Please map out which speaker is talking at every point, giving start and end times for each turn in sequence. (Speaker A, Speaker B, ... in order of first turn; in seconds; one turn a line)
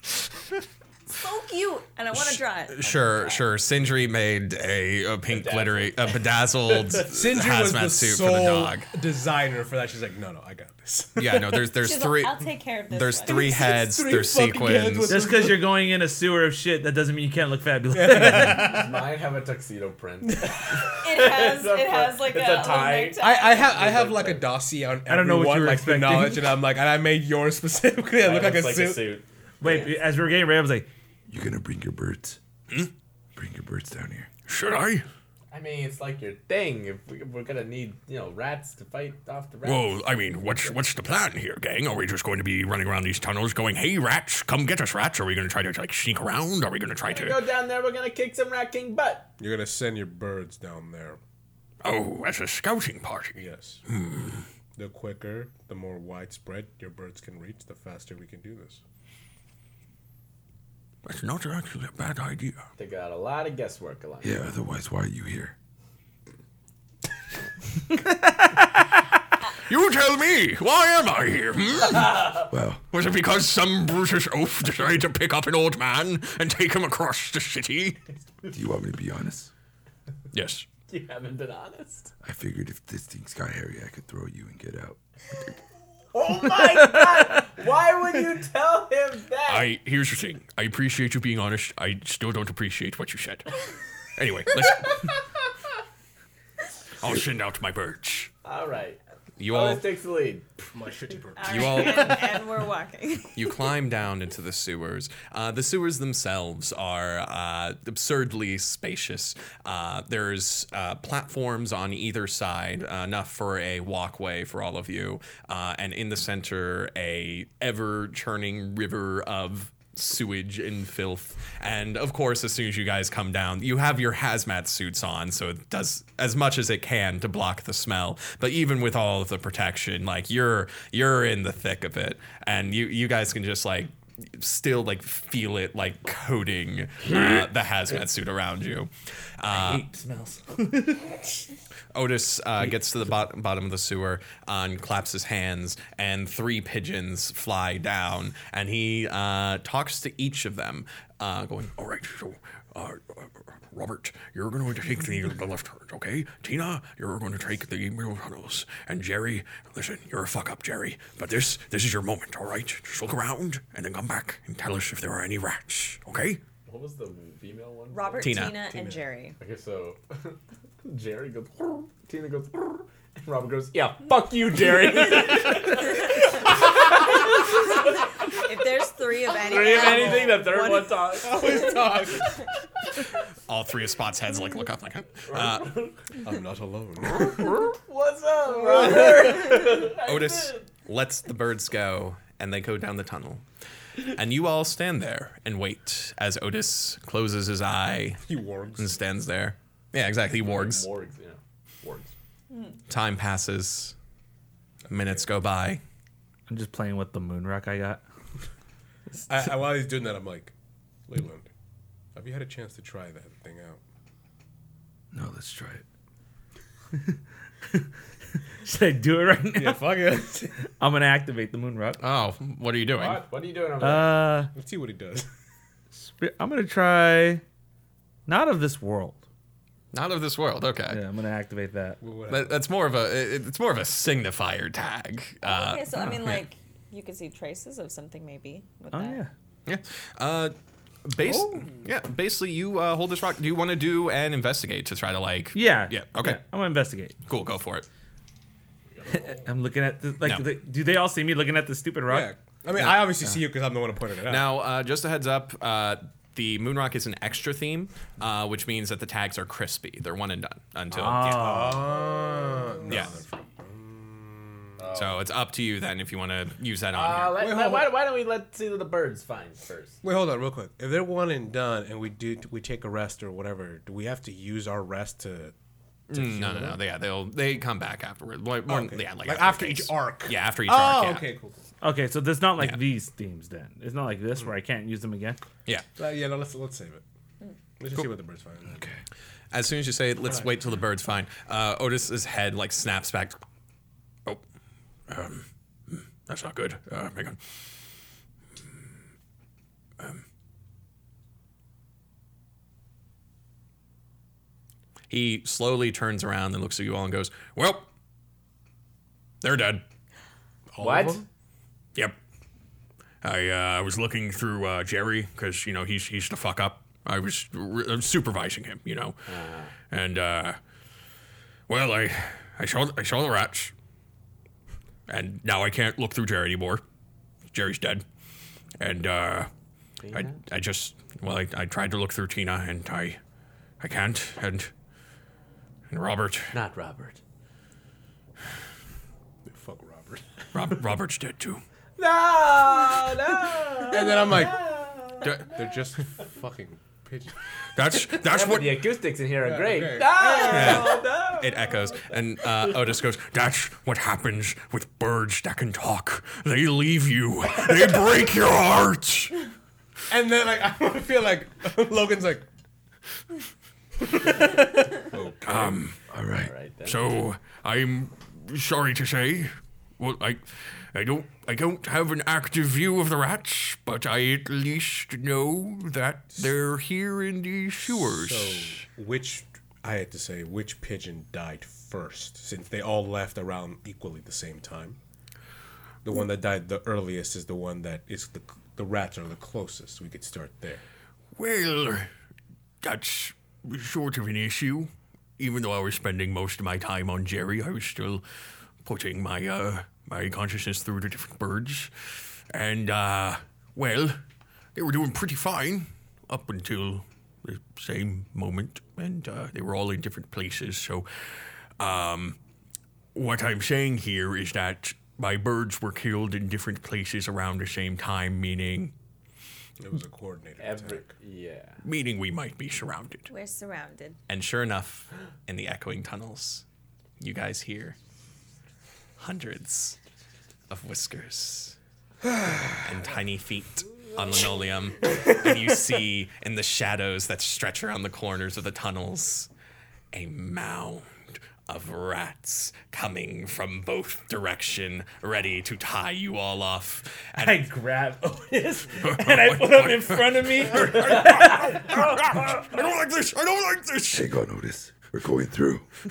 Speaker A: 1.1-3.4
Speaker B: 2.7-8.9
Speaker C: 5.3-6.2
Speaker D: 7.1-11.5
Speaker B: 11.2-15.2
Speaker A: 11.8-13.7
Speaker D: 13.2-15.7
Speaker E: 15.1-19.0
Speaker D: 17.9-18.9
Speaker C: 18.4-24.5
Speaker A: 21.0-23.7
Speaker D: 23.2-29.1
Speaker E: 25.1-26.6
Speaker C: 28.2-29.9
Speaker E: 29.6-30.9
Speaker F: 31.3-32.4
Speaker F: 33.4-34.3
Speaker G: 34.5-35.0
Speaker C: 35.5-40.0
Speaker G: 39.6-47.4
Speaker C: 47.0-49.3
Speaker D: 49.4-51.2
Speaker G: 51.8-54.4
Speaker D: 53.4-53.8
Speaker D: 54.8-58.8
Speaker G: 61.0-62.6
Speaker C: 62.8-64.5
Speaker F: 64.2-65.5
Speaker G: 69.7-78.0
Speaker F: 72.5-72.8
Speaker F: 78.5-79.5
Speaker G: 80.3-80.7
Speaker C: 80.9-82.1
Speaker F: 82.2-85.0
Speaker C: 86.1-89.7
Speaker G: 89.5-93.4
Speaker G: 94.2-94.9
Speaker B: 94.4-94.7
Speaker G: 97.0-98.3
Speaker C: 98.4-100.7
Speaker B: 99.4-99.8
Speaker D: 100.7-101.9
Speaker A: 101.4-103.5
Speaker B: 101.4-102.3
Speaker B: 103.3-139.9
Speaker E: 139.5-141.2
Speaker B: 141.9-151.8
Speaker G: 151.8-166.4
Speaker C: 166.7-168.4
Speaker A: 167.9-169.4
Speaker B: 168.2-168.6
Speaker D: 168.6-169.0
Speaker C: 169.4-178.0
Speaker A: 178.3-181.7
Speaker C: 179.2-181.8
Speaker D: 179.7-180.4
Speaker D: 181.2-182.4
Speaker B: 183.5-185.7
Speaker C: 185.3-186.0
Speaker D: 186.2-187.6
Speaker C: 187.2-190.7
Speaker A: 188.8-189.5
Speaker B: 190.0-193.4
Speaker B: 194.1-198.2
Speaker D: 198.2-199.0
Speaker B: 198.8-200.9
Speaker C: 200.4-202.1
Speaker A: 202.5-202.8
Speaker B: 202.9-203.9
Speaker D: 204.9-205.2
Speaker B: 204.9-205.8
Speaker E: 206.5-208.0
Speaker D: 209.3-210.5
Speaker D: 211.1-211.5
Speaker D: 212.1-213.8
Speaker F: 215.1-215.8
Speaker E: 218.6-220.0
Speaker D: 219.5-220.6
Speaker E: 220.7-222.0
Speaker B: 222.0-223.2
Speaker C: 222.9-224.4
Speaker E: 223.8-224.5
Speaker D: 224.5-225.3
Speaker E: 225.9-227.4
Speaker E: 228.3-229.2
Speaker B: 229.9-231.0
Speaker E: 230.9-232.0
Speaker D: 232.0-232.6
Speaker B: 232.3-236.4
Speaker A: 235.4-239.2
Speaker E: 238.9-239.3
Speaker B: 239.7-246.4
Speaker E: 245.5-247.2
Speaker B: 247.3-247.8
Speaker C: 248.9-249.5
Speaker E: 249.1-252.3
Speaker B: 250.2-250.5
Speaker D: 252.1-254.5
Speaker B: 254.3-261.6
Speaker E: 260.9-262.0
Speaker D: 261.3-264.8
Speaker C: 262.4-263.0
Speaker B: 262.9-263.1
Speaker C: 264.8-265.2
Speaker B: 264.9-267.4
Speaker C: 266.9-270.0
Speaker D: 267.4-267.9
Speaker D: 270.0-275.5
Speaker B: 276.1-281.2
Speaker D: 276.1-276.8
Speaker D: 278.6-281.6
Speaker E: 281.8-285.4
Speaker D: 286.0-287.0
Speaker D: 287.8-288.8
Speaker F: 288.7-289.0
Speaker B: 289.5-293.4
Speaker G: 295.1-297.4
Speaker B: 305.1-307.7
Speaker G: 307.5-307.8
Speaker G: 309.4-309.8
Speaker D: 310.7-311.2
Speaker C: 310.8-311.2
Speaker G: 313.2-319.3
Speaker C: 319.3-319.7
Speaker G: 319.8-320.6
Speaker G: 321.7-323.7
Speaker G: 325.1-326.8
Speaker G: 327.5-328.0
Speaker G: 328.8-329.5
Speaker C: 330.0-330.4
Speaker G: 330.5-333.2
Speaker G: 333.8-334.7
Speaker G: 335.9-336.5
Speaker C: 336.5-337.2
Speaker D: 339.4-340.2
Speaker G: 340.5-341.6
Speaker B: 340.7-341.0
Speaker C: 342.0-345.5
Speaker D: 343.9-344.7
Speaker D: 345.5-347.3
Speaker G: 347.8-348.8
Speaker C: 348.2-352.0
Speaker D: 349.4-350.8
Speaker A: 350.2-350.8
Speaker B: 350.4-353.3
Speaker G: 353.2-359.4
Speaker D: 360.1-362.4
Speaker D: 364.1-365.8
Speaker G: 365.4-366.0
Speaker F: 366.1-366.5
Speaker C: 366.4-367.0
Speaker G: 366.8-378.8
Speaker D: 377.8-385.0
Speaker D: 386.0-390.8
Speaker G: 391.4-392.1
Speaker G: 392.8-398.2
Speaker G: 398.8-404.2
Speaker G: 404.7-411.1
Speaker G: 411.8-412.4
Speaker G: 413.1-418.9
Speaker D: 419.8-421.1
Speaker C: 420.6-421.8
Speaker G: 421.8-423.3
Speaker A: 423.3-424.2
Speaker B: 424.3-426.6
Speaker B: 427.2-427.9
Speaker B: 429.2-430.0
Speaker B: 430.7-431.8
Speaker B: 432.8-439.5
Speaker B: 440.1-441.1
Speaker B: 441.7-447.6
Speaker E: 447.4-452.6
Speaker G: 449.2-454.3
Speaker F: 454.1-455.9